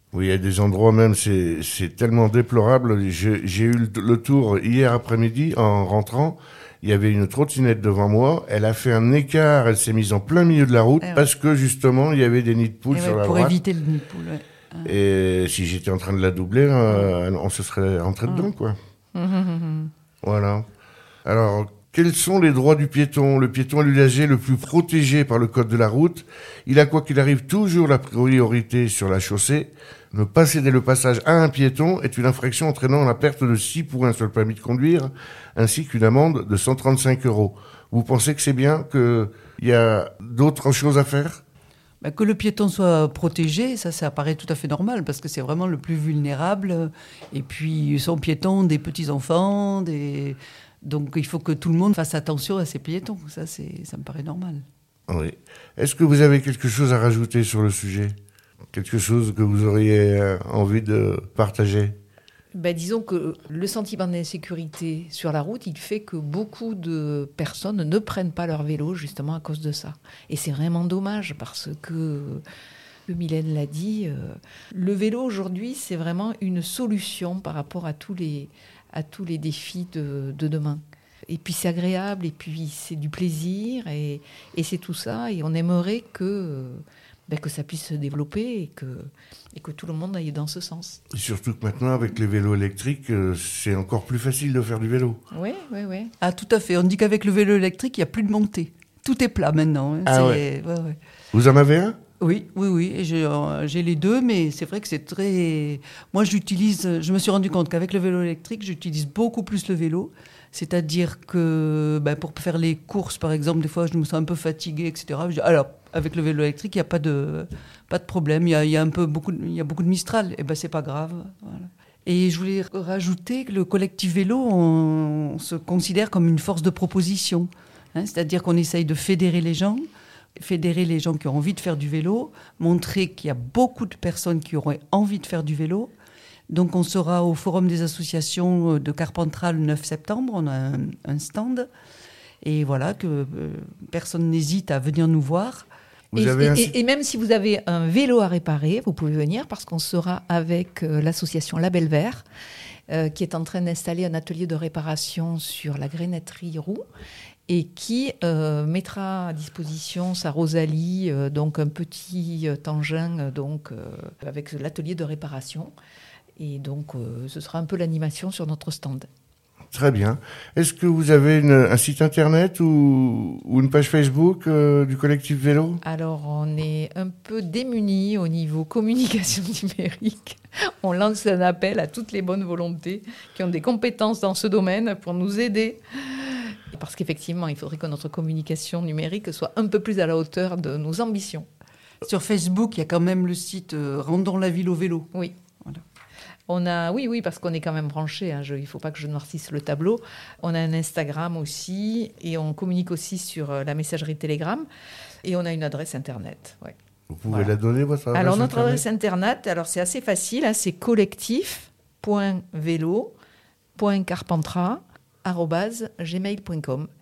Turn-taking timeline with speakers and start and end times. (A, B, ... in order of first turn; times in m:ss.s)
0:00.1-0:13.6 A
0:11.0-0:11.3 B
0:12.9-0:15.0 B
0:14.8-0:18.8 A
0:19.2-0:19.9 C
0:20.2-0:20.7 A
0:21.2-0:41.4 A
0:42.0-0:54.6 B
0:55.1-0:58.2 A
0:58.7-1:02.0 A
1:02.5-1:12.4 C
1:13.1-1:31.0 C
1:31.1-1:35.2 A
1:35.3-1:36.1 C
1:36.2-1:41.0 B
1:40.1-1:40.4 A
1:41.3-1:42.0 A
1:42.2-2:09.9 B
2:10.4-2:15.9 B
2:16.5-2:21.7 B
2:22.4-2:25.7 B
2:26.1-2:26.7 A
2:26.2-2:32.2 C
2:32.9-2:36.8 C
2:37.5-2:45.7 C
2:46.4-2:49.1 C
2:49.7-2:55.8 A
2:55.8-3:11.5 C
3:12.0-3:15.1 B
3:16.5-3:24.7 C
3:25.2-3:26.8 C
3:27.1-3:28.8 A
3:28.1-3:33.1 C
3:33.8-3:36.9 C